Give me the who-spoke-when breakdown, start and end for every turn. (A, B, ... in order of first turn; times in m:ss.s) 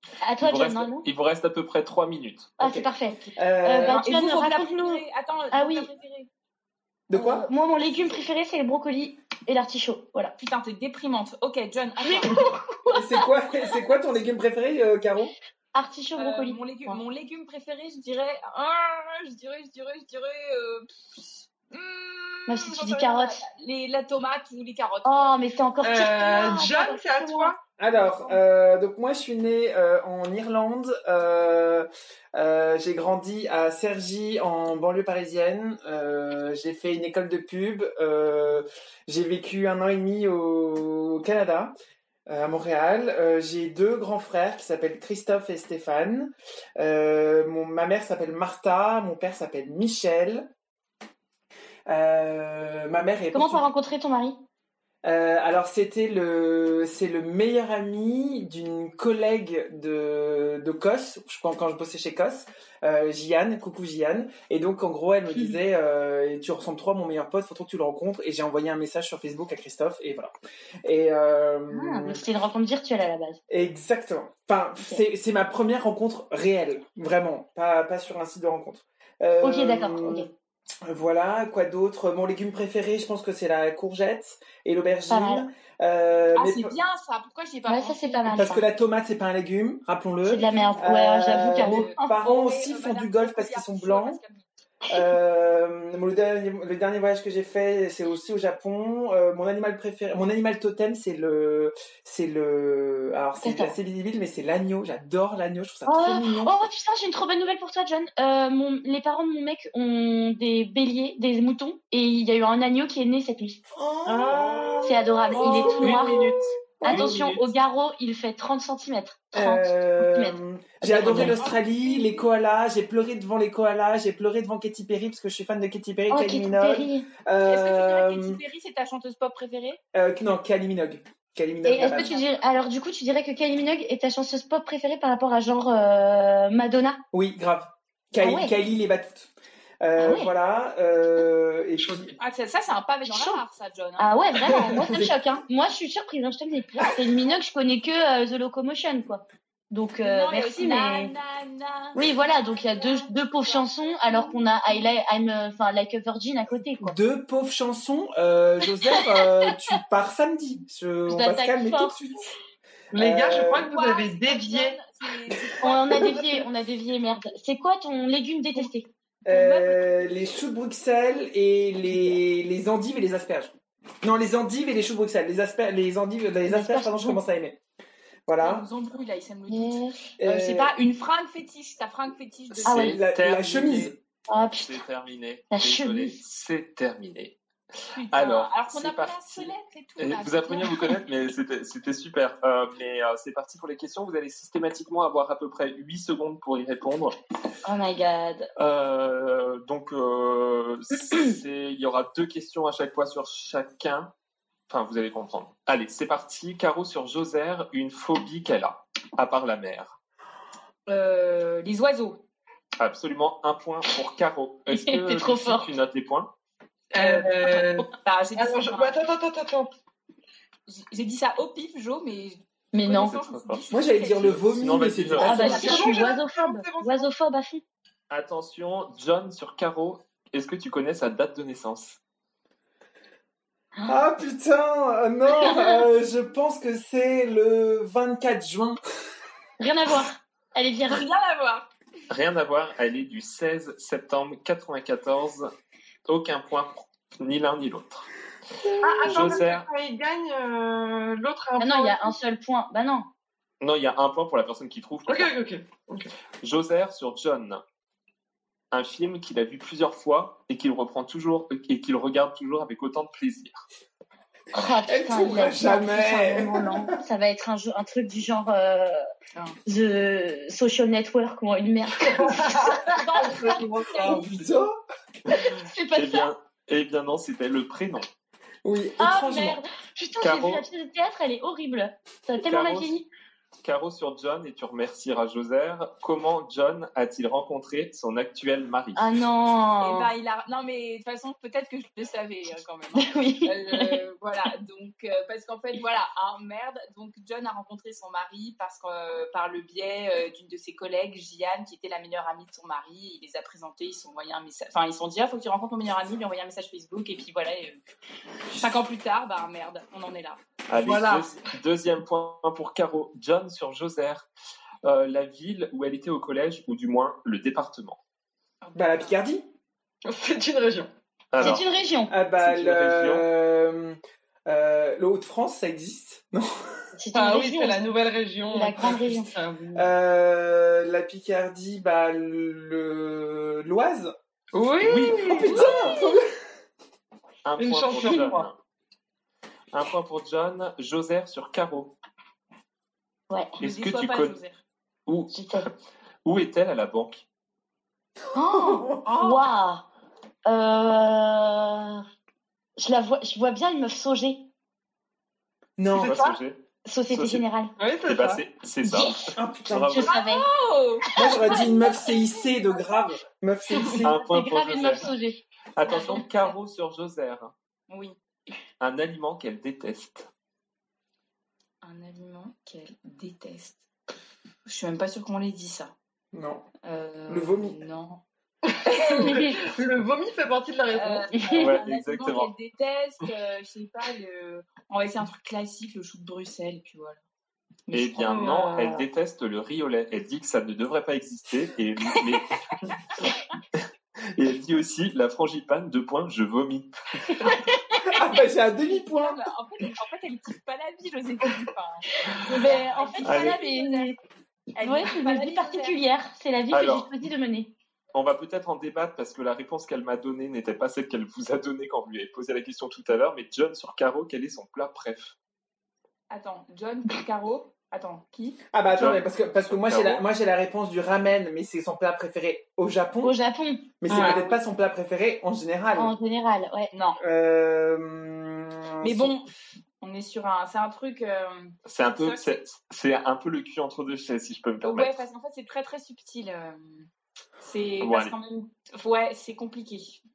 0:00.2-0:01.0 A
0:00.4-0:02.5 B
0:02.6-0:05.9 A
0:02.6-0:04.0 C
0:03.2-0:06.3 D
0:07.1-0:07.5 C
0:07.1-0:10.4 A
0:10.4-0:12.5 D
0:12.0-0:13.0 A
0:12.9-0:15.3 C
0:15.7-0:17.0 A
0:16.2-0:25.4 D
0:22.5-0:23.4 A
0:25.0-0:27.5 A
0:25.8-0:27.6 E
0:27.8-0:41.8 C
0:27.9-0:28.4 D
0:42.3-0:50.5 C
0:51.9-0:53.6 C
0:53.3-0:54.4 A
0:55.0-1:10.3 C
1:10.8-1:12.2 C
1:11.7-1:13.4 A
1:13.5-1:20.3 C
1:19.4-1:20.3 A
1:20.8-1:26.7 C
1:25.1-1:25.4 A
1:26.4-1:28.3 D
1:27.7-1:28.6 A
1:28.3-1:34.2 C
1:30.2-1:32.2 A
1:31.5-1:34.5 D
1:34.9-1:46.6 C
1:43.4-1:43.8 A
1:45.9-1:53.6 A
1:53.7-1:56.3 C
1:54.2-1:56.3 E
1:54.8-1:56.3 A
1:55.7-1:57.5 B
1:56.8-2:01.5 A
1:59.3-2:08.4 C
2:00.9-2:02.2 D
2:06.1-2:07.1 A
2:07.4-2:09.8 D
2:09.9-2:12.1 C
2:11.6-2:17.0 A
2:11.7-2:12.6 D
2:17.1-2:22.1 C
2:18.2-2:18.5 A
2:20.0-2:20.3 A
2:21.8-2:22.1 E
2:22.2-2:24.1 D
2:23.0-2:23.4 A
2:24.0-2:31.1 A
2:24.8-2:25.2 C
2:30.0-2:32.0 D
2:32.0-2:37.0 A
2:32.5-2:34.8 D
2:36.8-2:42.4 C
2:41.1-2:42.0 A
2:42.9-2:44.8 E
2:43.0-2:43.7 C
2:43.7-2:46.2 D
2:45.6-2:48.9 A
2:49.3-2:57.6 C
2:49.3-2:50.1 D
2:56.4-2:57.2 A
2:58.3-2:58.7 C
2:58.4-3:03.0 D
2:59.5-3:00.0 A
3:00.2-3:00.8 C
3:02.6-3:03.9 B
3:02.7-3:03.0 A
3:02.7-3:04.0 C
3:04.3-3:04.8 A
3:04.5-3:07.4 B
3:05.5-3:06.2 A
3:07.9-3:11.0 D
3:08.1-3:17.2 B
3:17.6-3:18.5 A
3:18.6-3:24.1 B
3:24.7-3:30.0 B
3:30.9-3:32.2 D
3:32.8-3:36.3 B
3:34.7-3:35.7 A
3:36.9-3:39.7 E
3:37.0-3:39.0 D
3:40.7-3:44.5 D
3:42.7-3:43.2 A
3:42.9-3:45.5 B
3:43.7-3:45.8 C
3:45.2-3:46.0 D
3:45.2-3:47.6 A
3:45.3-3:47.1 E
3:48.1-3:52.0 B
3:53.9-3:58.8 C
3:55.4-3:55.8 A
3:59.6-4:01.0 A
4:00.9-4:01.7 D
4:02.1-4:05.5 B
4:06.0-4:08.1 B
4:08.6-4:12.1 E
4:09.0-4:09.6 B
4:09.1-4:09.4 D
4:11.6-4:13.1 A
4:13.6-4:15.3 B
4:15.1-4:16.1 E
4:16.4-4:17.6 B
4:18.7-4:23.6 B
4:24.5-4:29.0 A
4:24.9-4:26.9 C
4:29.7-4:34.1 A
4:32.1-4:34.3 E
4:33.0-4:34.2 D
4:34.0-4:34.7 C
4:35.3-4:36.3 A
4:36.0-4:38.1 B
4:38.6-4:39.6 C
4:39.0-4:43.1 A
4:40.2-4:40.6 B
4:42.4-4:43.0 B
4:43.6-4:49.1 B
4:49.0-4:50.1 A
4:49.8-5:07.8 D
4:53.0-4:54.0 A
5:08.5-5:10.4 D
5:10.7-5:14.3 B
5:10.7-5:11.3 E
5:14.8-5:18.0 B
5:18.6-5:19.2 D
5:18.8-5:19.5 C
5:20.0-5:20.9 E
5:21.3-5:21.6 B
5:21.4-5:22.1 A
5:22.1-5:26.5 C
5:22.4-5:23.3 B
5:27.0-5:27.9 A
5:27.1-5:29.9 E
5:28.5-5:29.3 A
5:29.8-5:34.1 C
5:34.5-5:35.9 E
5:34.8-5:35.4 B
5:35.2-5:36.2 C
5:37.4-5:38.6 B
5:37.6-5:38.5 E
5:39.7-5:41.9 B
5:43.3-5:43.6 A
5:43.6-5:44.4 B
5:43.6-5:44.6 D
5:45.1-5:45.7 B
5:45.3-5:45.7 A
5:46.2-5:47.2 B
5:48.3-5:49.8 A
5:50.5-5:52.0 A
5:52.8-5:54.5 A
5:55.8-5:56.2 C
5:55.9-5:56.4 E
5:56.0-5:56.6 B
5:56.9-5:57.7 A
5:57.1-5:57.4 B
5:57.8-5:58.4 E
5:58.0-6:00.1 B
5:58.8-6:00.5 A
5:59.4-6:00.1 C
6:00.0-6:02.1 D
6:01.2-6:04.2 C
6:01.2-6:02.1 A
6:04.0-6:05.1 B
6:04.0-6:06.0 A
6:05.8-6:07.5 B
6:05.9-6:06.5 D
6:07.9-6:08.2 D
6:08.8-6:10.3 B
6:11.8-6:13.9 D
6:14.7-6:15.9 D
6:16.3-6:16.7 C
6:16.8-6:18.2 D
6:17.3-6:17.8 C
6:18.7-6:21.3 E
6:18.8-6:19.6 D
6:20.9-6:27.2 D
6:21.4-6:21.8 A
6:21.5-6:22.5 B
6:27.9-6:32.6 B
6:28.2-6:29.0 E
6:34.4-6:37.5 B
6:37.4-6:38.2 A
6:38.1-6:39.4 C
6:38.8-6:44.2 D
6:42.2-6:44.2 A
6:43.2-6:43.6 B
6:44.8-6:46.0 D
6:44.8-6:47.7 A
6:46.7-6:47.1 B
6:48.1-6:55.4 B
6:56.3-6:58.6 D
6:58.7-7:03.4 C
6:58.9-7:00.2 B
7:03.2-7:03.9 A
7:04.0-7:06.1 C
7:04.1-7:04.4 E
7:04.2-7:04.6 D
7:06.0-7:06.9 A
7:06.9-7:07.2 D
7:07.2-7:09.3 C
7:09.0-7:12.6 D
7:11.9-7:15.2 B
7:14.8-7:17.1 D
7:17.6-7:20.2 D
7:18.0-7:18.3 B